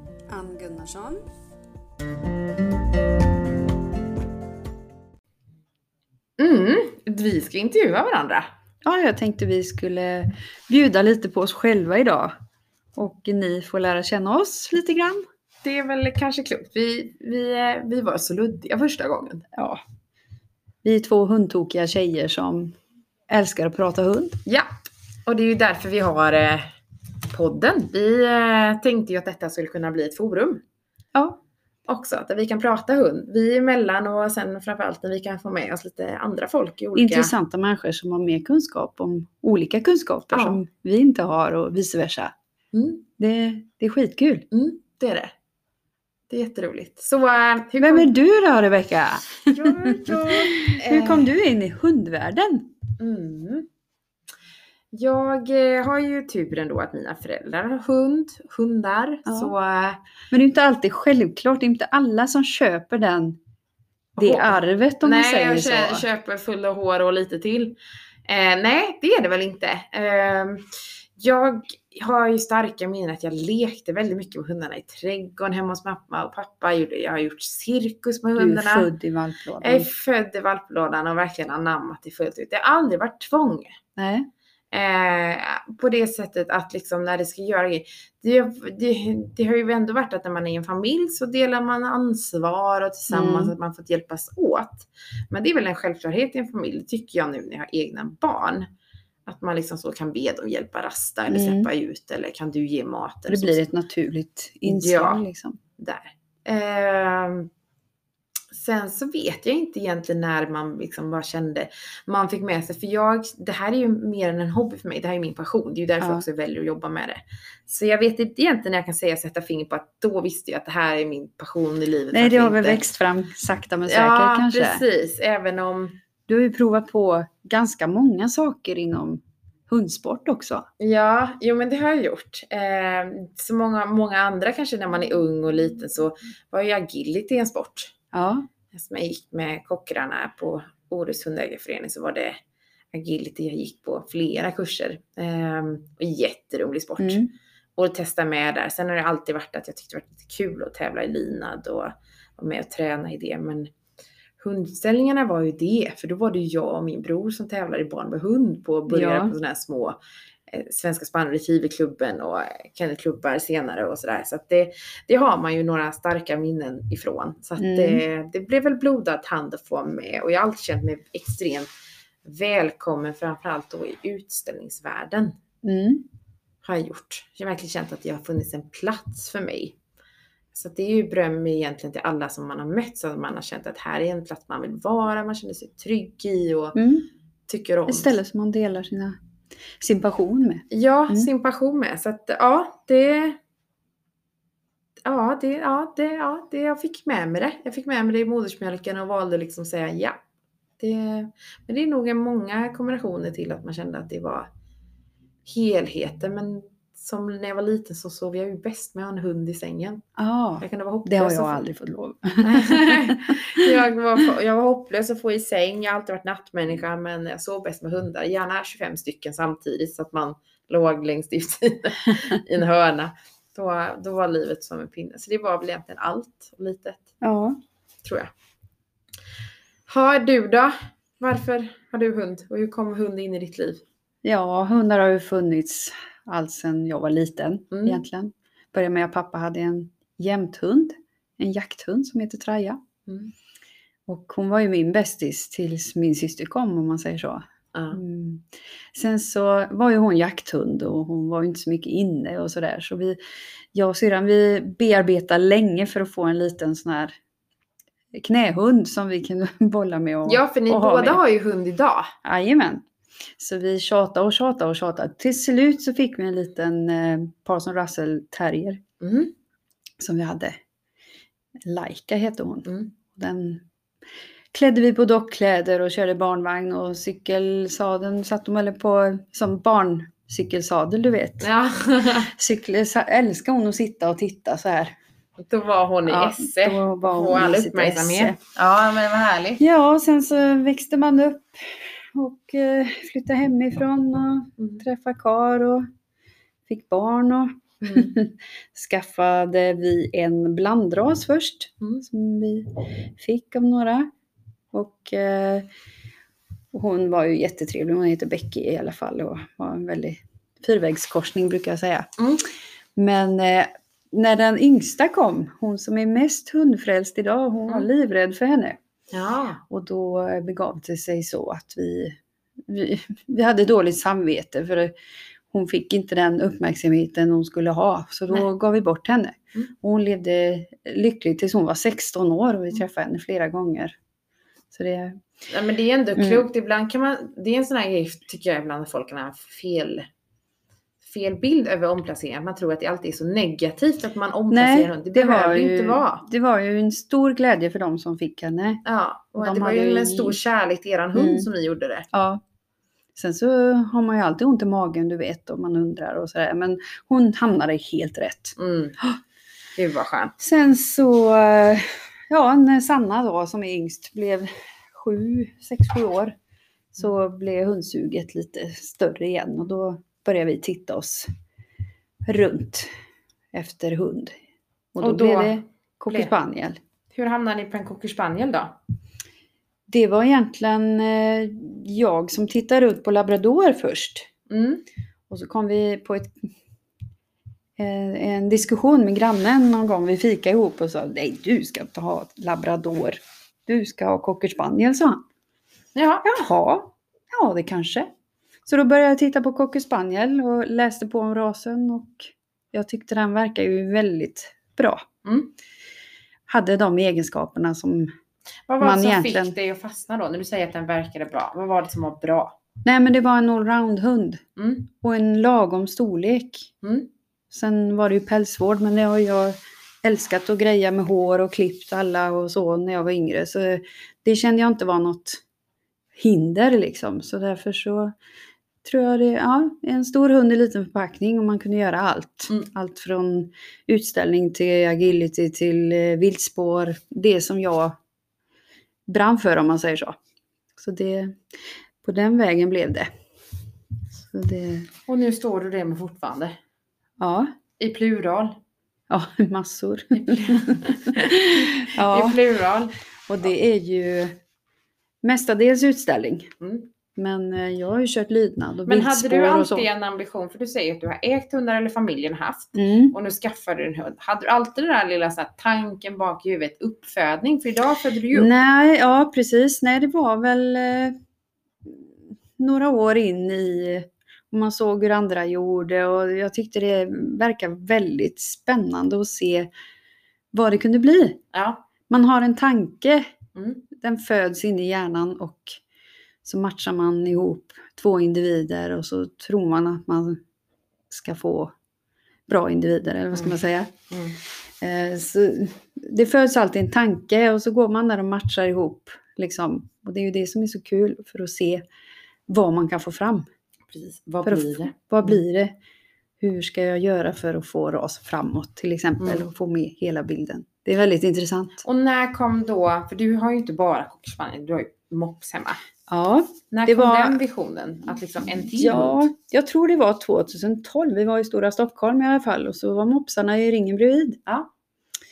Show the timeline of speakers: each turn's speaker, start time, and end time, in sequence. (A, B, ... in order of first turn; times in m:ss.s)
0:00.3-0:01.2 A
0:06.4-0:08.5 B
0:08.8-0:12.3 A
0:13.0-0:15.2 A
0:15.6-0:19.5 B
0:19.5-0:19.8 A
0:20.8-0:22.7 A
0:23.3-0:24.4 A
0:25.2-0:26.7 B
0:27.3-0:30.6 B
0:31.9-0:37.3 B
0:36.9-0:42.3 A
0:40.3-0:40.6 B
0:42.7-0:43.0 B
0:43.2-0:44.4 A
0:44.5-0:45.3 B
0:46.3-0:48.1 B
0:47.8-0:52.7 A
0:49.5-0:51.3 B
0:53.0-0:53.7 B
0:54.9-1:00.0 B
0:59.2-0:59.5 A
1:00.3-1:03.4 A
1:04.2-1:06.0 A
1:04.2-1:18.9 B
1:18.4-1:19.9 A
1:19.6-1:23.8 B
1:24.0-1:24.3 A
1:24.7-1:38.7 B
1:33.1-1:33.5 A
1:39.2-1:43.6 B
1:41.3-1:41.7 A
1:43.3-1:45.6 A
1:44.6-1:45.2 B
1:45.8-1:47.5 B
1:48.5-2:02.8 B
2:02.1-2:04.8 A
2:03.8-2:06.0 B
2:06.3-2:10.7 A
2:10.8-2:17.9 B
2:18.1-2:18.4 A
2:18.7-2:22.4 B
2:22.9-2:27.2 B
2:27.0-2:27.3 A
2:27.8-2:33.7 B
2:34.4-2:51.7 B
2:38.9-2:39.3 A
2:47.6-2:48.0 A
2:52.2-2:55.3 B
2:55.6-2:56.0 A
2:56.6-2:59.8 B
3:00.5-3:06.8 B
3:06.7-3:07.1 A
3:07.5-3:08.2 B
3:07.9-3:09.2 A
3:09.8-3:11.3 A
3:10.7-3:13.4 B
3:15.0-3:20.2 B
3:20.8-3:24.5 B
3:25.4-3:30.0 B
3:30.2-3:33.7 A
3:30.6-3:31.7 B
3:32.4-3:47.0 B
3:47.2-3:47.6 A
3:48.0-3:48.3 B
3:49.9-3:53.8 B
3:54.2-4:02.8 A
3:57.7-3:58.0 B
4:03.1-4:03.3 B
4:04.1-4:13.2 A
4:07.7-4:08.0 B
4:13.7-4:17.1 A
4:18.1-4:21.2 A
4:20.2-4:22.1 B
4:22.2-4:22.8 A
4:23.4-4:28.8 A
4:29.0-4:29.3 B
4:30.0-4:30.6 A
4:31.6-4:33.6 A
4:32.6-4:32.9 B
4:34.5-4:41.5 A
4:41.4-4:42.3 B
4:42.2-4:44.9 A
4:45.4-4:49.6 B
4:46.0-4:48.4 A
4:49.6-4:55.9 A
4:54.6-4:54.8 B
4:56.7-5:04.1 A
4:57.8-4:58.1 B
5:04.7-5:05.7 A
5:06.7-5:12.1 A
5:12.2-5:12.4 B
5:13.0-5:18.8 A
5:19.1-5:19.6 B
5:19.7-5:24.9 A
5:25.5-5:34.0 A
5:34.7-5:35.2 A
5:35.5-5:40.0 B
5:36.2-5:36.4 A
5:41.0-5:46.2 B
5:44.5-5:48.8 A
5:48.8-5:52.0 B
5:49.4-5:50.4 A
5:51.1-5:51.5 A
5:52.1-5:52.4 A
5:53.2-5:59.2 A
5:58.6-5:59.0 B
5:59.8-6:00.3 B
6:00.4-6:06.3 A
6:06.9-6:11.3 A
6:12.2-6:12.9 A
6:13.5-6:14.3 A
6:14.9-6:16.8 A
6:15.0-6:16.3 B
6:17.1-6:18.8 B
6:19.9-6:24.3 A
6:24.5-6:24.8 B
6:25.3-6:26.5 A
6:27.8-6:35.2 A
6:35.9-6:36.4 B
6:36.2-6:38.1 A
6:38.6-6:45.0 A
6:45.2-6:45.5 B
6:46.5-6:48.1 A
6:48.7-6:52.6 B
6:48.8-6:49.6 A
6:52.8-6:54.4 A
6:54.6-6:54.9 B
6:55.0-6:56.7 A
6:56.8-6:57.1 B
6:57.5-7:05.4 A
7:06.2-7:08.1 A
7:08.8-7:18.0 A
7:19.1-7:20.2 A
7:20.8-7:21.4 A
7:22.0-7:23.1 A
7:24.2-7:24.9 A
7:25.1-7:26.6 B
7:27.2-7:27.5 A
7:27.8-7:28.6 B
7:29.1-7:32.4 A
7:30.1-7:32.9 B
7:33.3-7:34.4 A
7:35.2-7:36.5 A
7:36.6-7:36.9 B
7:37.1-7:39.8 A
7:38.8-7:48.5 B
7:42.7-7:43.1 A
7:48.3-7:51.2 A
7:51.8-7:59.7 A
8:00.5-8:01.4 A
8:01.5-8:01.8 B
8:02.1-8:03.3 A
8:03.5-8:03.8 B
8:03.9-8:05.8 A
8:06.4-8:10.4 A
8:11.1-8:11.7 A
8:12.5-8:13.9 A
8:13.3-8:13.6 B
8:14.1-8:14.4 B
8:14.8-8:21.8 A
8:22.5-8:23.5 A
8:23.9-8:25.4 B
8:24.4-8:25.7 A
8:26.4-8:31.8 A
8:29.2-8:29.4 B
8:31.8-8:35.8 B
8:36.1-8:37.4 A
8:36.7-8:39.3 B
8:38.7-8:44.4 A